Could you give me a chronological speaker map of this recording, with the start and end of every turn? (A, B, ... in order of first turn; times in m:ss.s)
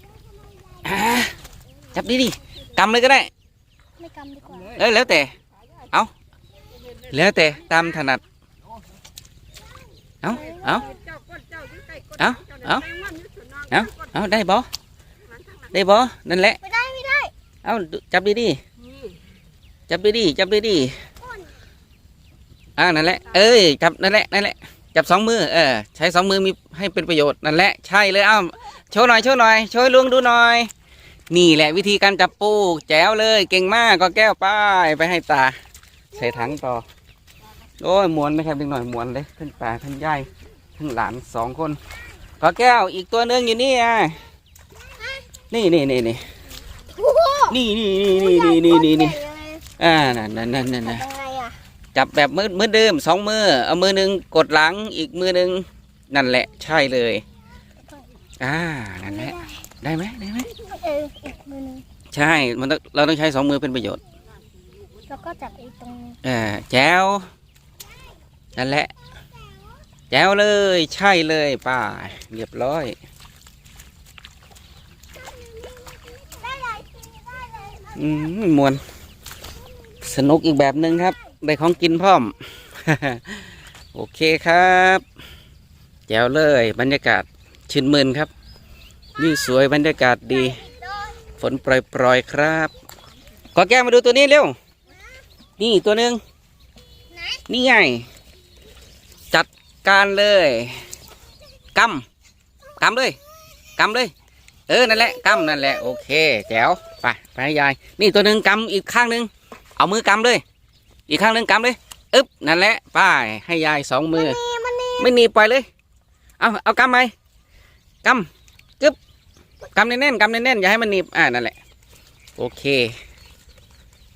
0:00.8-0:01.4 A
0:01.9-0:03.3 A
0:04.0-0:04.7 B
0:04.8-0:05.3 A
0:07.1-0:08.2 A
0:07.4-0:07.7 C
0:10.2-0:10.9 A
0:10.3-0:11.0 B
0:10.5-0:13.9 C
0:12.2-0:12.8 A
0:13.7-0:14.7 A
0:15.7-0:16.6 A
0:16.6-0:17.3 B
0:17.6-0:18.6 A
0:19.9-0:21.0 A
0:21.2-0:21.5 B
0:22.8-0:30.7 A
0:31.3-0:35.6 A
0:36.2-0:36.8 A
0:37.8-0:41.8 A
0:42.4-0:44.2 A
0:44.8-0:45.3 B
0:45.5-0:46.3 A
0:46.9-0:47.6 B
0:47.5-0:49.2 A
0:48.1-0:49.6 B
0:49.8-0:51.0 A
0:50.8-0:51.6 B
0:51.9-0:57.2 A
0:58.4-1:00.5 A
0:59.1-0:59.6 B
1:00.7-1:01.8 B
1:02.1-1:04.0 A
1:05.1-1:06.2 B
1:06.2-1:07.3 A
1:08.6-1:08.9 A
1:10.1-1:13.0 A
1:16.3-1:18.1 B
1:17.9-1:18.8 A
1:20.0-1:25.0 A
1:26.1-1:28.3 A
1:29.2-1:30.6 A
1:30.3-1:31.2 B
1:31.4-1:32.7 A
1:33.5-1:34.6 A
1:35.6-1:36.2 A
1:37.1-1:37.4 B
1:37.5-1:38.1 A
1:39.3-1:40.9 A
1:41.8-1:42.0 A
1:42.8-1:43.2 A
1:43.8-1:44.1 A
1:44.7-1:50.4 A
1:45.0-1:45.9 B
1:51.1-1:54.4 A
1:54.2-1:55.1 B
1:55.0-1:55.7 A
1:56.4-1:57.1 A
1:58.0-1:58.3 A
1:59.8-2:01.6 A
2:02.4-2:02.9 A